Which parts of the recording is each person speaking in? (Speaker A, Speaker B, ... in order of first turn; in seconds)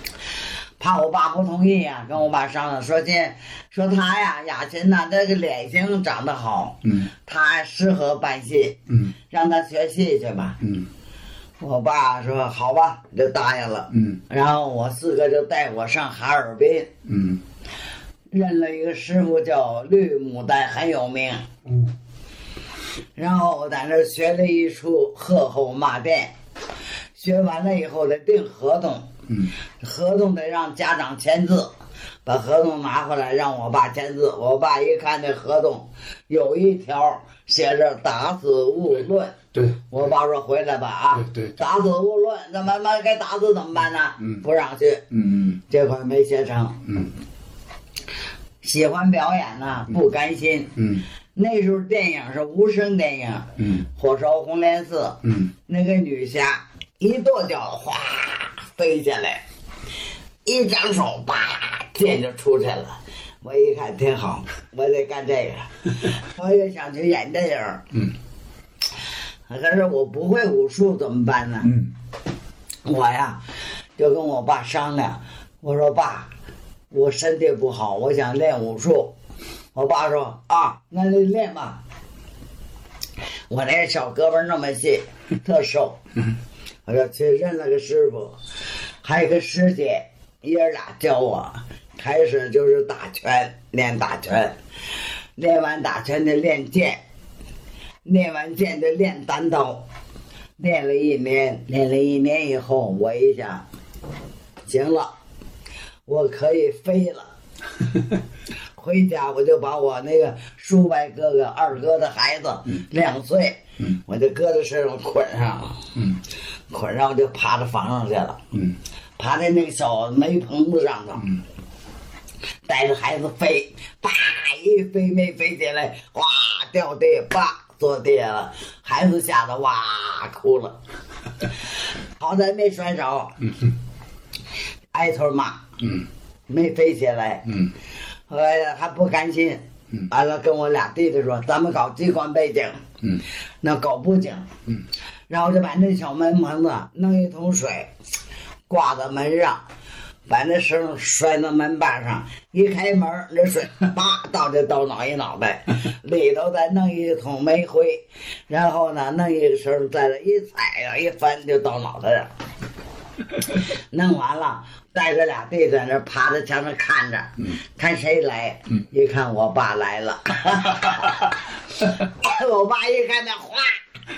Speaker A: 0.8-8.8, 9.3-10.6, 11.6-16.9, 18.3-21.5, 23.2-26.3, 27.2-29.1, 29.8-31.7, 32.3-39.4, 39.9-45.0, 45.7-46.8, 48.6-50.8, 51.4-59.4, 60.5-65.7, 66.3-67.8, 69.5-71.7, 72.8-73.4, 74.0-76.3, 76.9-79.1, 79.8-81.8, 83.5-86.0, 86.9-88.4, 89.0-94.5, 95.4-97.0, 98.0-99.9, 100.6-103.6, 104.7-105.1, 106.1-107.3, 108.8-115.8, 116.7-118.4, 119.2-121.2, 122.7-130.8, 132.2-133.3, 134.9-135.6, 136.5-137.4, 138.3-142.8, 143.6-144.5, 145.3-147.9, 148.7-149.6, 150.3-162.3, 163.9-171.3, 172.1-173.8
Speaker B: 6.8-7.1, 8.9-9.2, 10.6-10.9, 13.9-14.2, 17.1-17.4, 39.5-40.1, 41.1-41.6, 44.2-44.4, 45.1-45.6, 46.9-47.1, 50.8-51.0, 53.6-53.9, 55.2-55.5, 71.6-71.9, 133.5-133.7, 135.8-136.1